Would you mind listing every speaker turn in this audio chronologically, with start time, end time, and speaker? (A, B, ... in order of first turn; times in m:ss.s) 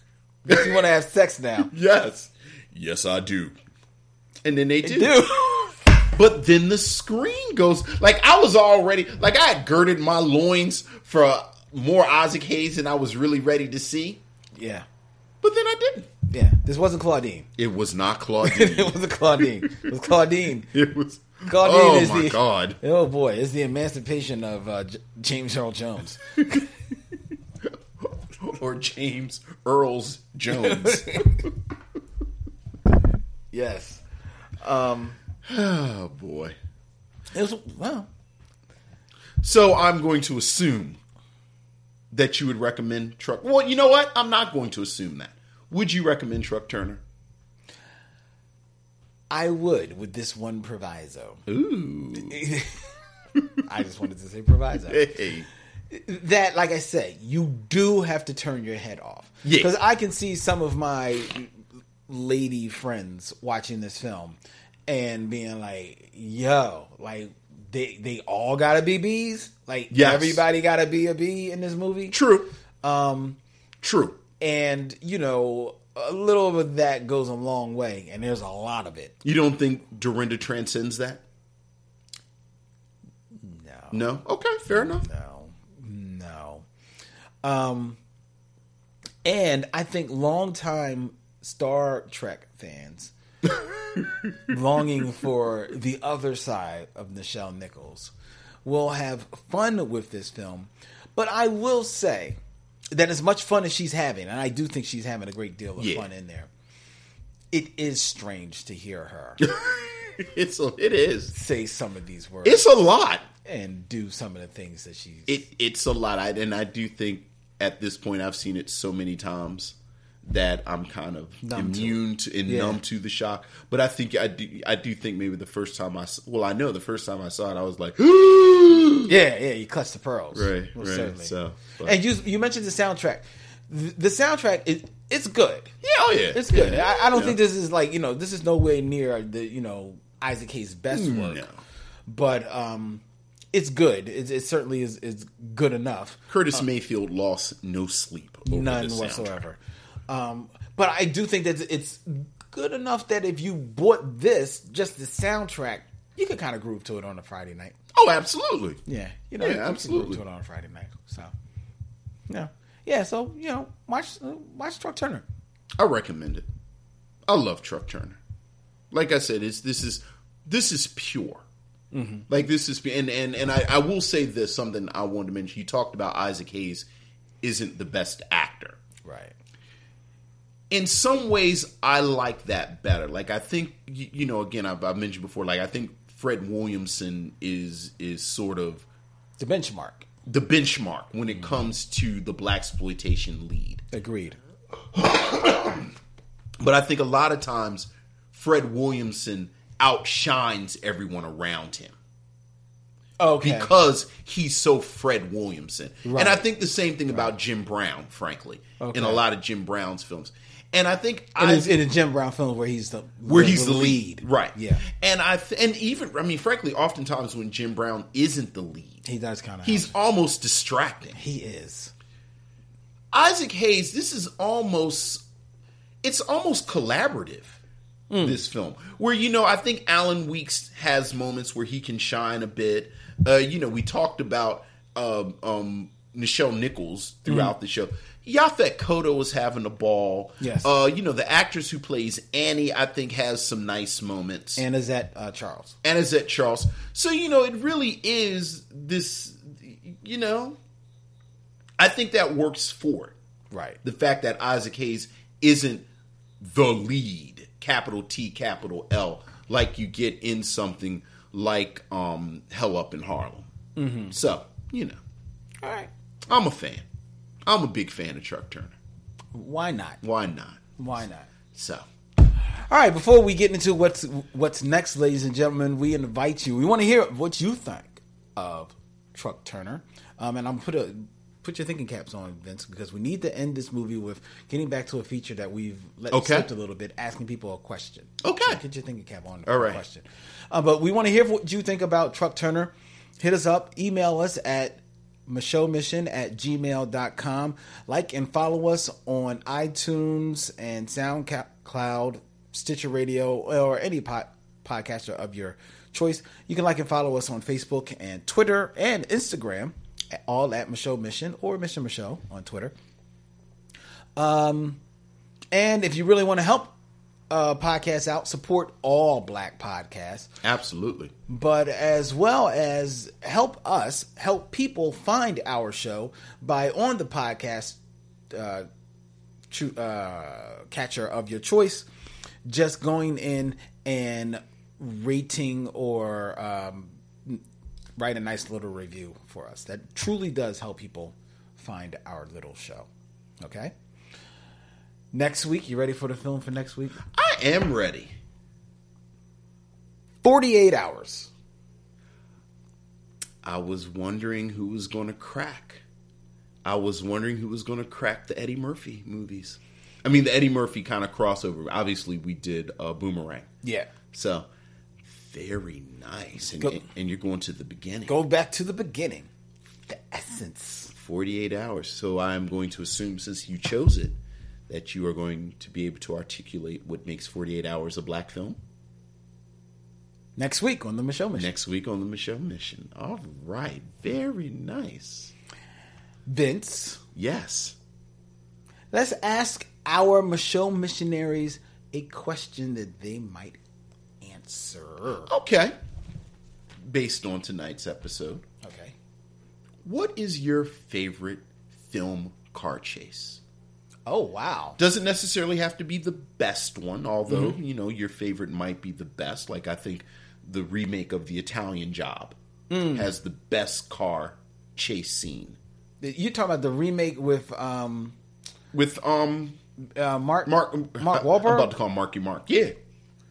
0:00.5-0:01.7 A
0:01.7-0:03.6 B
0:04.4-0:05.2 B
0:04.8-0:05.8 A
0:06.1-0:14.2 B
0:14.6-0:14.9 A
0:15.4-0:16.1 B
0:16.3-0:17.5 A
0:17.6-0:19.0 B
0:18.4-0:20.7 A
0:20.7-0:22.8 B
0:21.4-0:26.3 A
0:28.4-0:31.3 B
0:30.5-0:31.3 A
0:33.5-0:34.0 A
0:34.6-0:35.2 A
0:35.4-0:36.6 B
0:37.3-0:38.1 A
0:39.4-0:41.0 B
0:42.1-0:47.0 B
0:49.3-0:51.4 A
0:51.5-0:52.4 B
0:52.3-0:52.8 A
0:53.6-0:55.0 A
0:54.9-0:55.5 B
0:55.9-1:01.5 A
0:59.4-0:59.7 B
1:02.1-1:12.2 A
1:09.9-1:10.4 B
1:12.1-1:12.5 B
1:12.8-1:13.4 A
1:13.8-1:14.2 B
1:14.4-1:19.2 A
1:19.2-1:21.2 B
1:23.4-1:24.0 A
1:23.9-1:25.1 B
1:24.8-1:26.6 A
1:27.4-1:28.0 A
1:29.2-1:33.1 A
1:34.5-1:38.1 A
1:38.6-1:42.4 A
1:42.9-1:46.5 A
1:45.8-1:46.1 B
1:47.5-1:49.4 A
1:49.4-1:51.3 B
1:51.3-1:52.8 A
1:52.4-1:53.2 B
1:53.4-1:55.4 A
1:55.3-2:09.2 B
2:01.4-2:02.8 A
2:09.1-2:15.7 A
2:10.3-2:12.0 B
2:15.8-2:17.4 B
2:16.3-2:21.4 A
2:20.9-2:21.6 B
2:22.1-2:23.0 A
2:23.5-2:26.6 A
2:26.3-2:29.4 B
2:28.4-2:37.8 A
2:37.9-2:38.8 B
2:38.9-2:41.3 A
2:39.4-2:40.2 B
2:42.3-2:45.2 A
2:45.8-2:46.5 B
2:47.3-2:48.2 B
2:48.9-2:51.4 B
2:51.9-2:52.3 A
2:52.3-2:56.9 B
2:57.4-2:58.8 B
2:59.0-2:59.3 A
3:00.7-3:08.9 B
3:09.4-3:10.1 A
3:10.3-3:13.8 B
3:13.9-3:14.4 A
3:15.0-3:15.9 B
3:16.6-3:22.0 B
3:23.2-3:23.7 A
3:23.4-3:31.8 B
3:26.0-3:26.4 A
3:27.1-3:27.4 A
3:28.8-3:29.2 A
3:31.4-3:34.8 A
3:33.2-3:39.0 B
3:39.0-3:39.9 A
3:39.6-3:41.2 B
3:41.2-3:41.9 A
3:43.1-3:45.2 B
3:46.0-3:47.6 B
3:48.1-3:48.4 A
3:48.2-4:04.6 B
4:00.4-4:00.7 A
4:04.6-4:05.8 A
4:05.8-4:10.6 B
4:11.8-4:13.2 B
4:13.5-4:13.8 A
4:13.8-4:15.8 B
4:16.4-4:23.5 B
4:23.8-4:24.2 A
4:24.1-4:25.0 B
4:25.6-4:25.9 A
4:26.3-4:26.8 B
4:27.4-4:28.8 B
4:29.3-4:30.0 A
4:30.0-4:30.6 B
4:30.8-4:31.3 A
4:31.5-4:31.9 B
4:32.7-5:12.7 A
4:46.1-4:46.5 B
4:48.2-4:48.6 B
4:49.5-4:49.8 B
5:14.2-5:14.8 A
5:15.5-5:16.7 A
5:17.3-5:20.3 A
5:20.4-5:21.1 B
5:21.3-5:27.8 A
5:28.3-5:28.7 A
5:29.5-5:31.9 A
5:32.5-5:37.4 A
5:38.0-5:42.9 A
5:43.4-5:43.7 A
5:45.1-5:47.0 A
5:47.1-5:48.2 B
5:50.2-5:51.3 A
5:53.4-5:55.8 B
5:56.6-6:03.5 B
6:03.6-6:03.9 A
6:04.1-6:04.5 B
6:05.0-6:08.2 B
6:08.1-6:09.3 A
6:09.9-6:10.9 A
6:10.9-6:14.2 B
6:14.7-6:18.6 B
6:20.4-6:21.5 A
6:21.4-6:25.3 B
6:26.3-6:27.0 A
6:27.2-6:27.8 B
6:28.9-6:33.6 A
6:34.2-6:35.3 A
6:35.3-6:35.8 B
6:36.9-6:38.4 B
6:38.6-6:39.0 A
6:39.8-6:43.4 B
6:44.1-6:44.8 A
6:44.8-6:55.6 B
6:47.3-6:47.6 A
6:52.7-6:53.1 A
6:56.0-6:58.2 A
6:58.7-6:59.6 B
7:00.0-7:01.7 A
7:00.4-7:02.8 B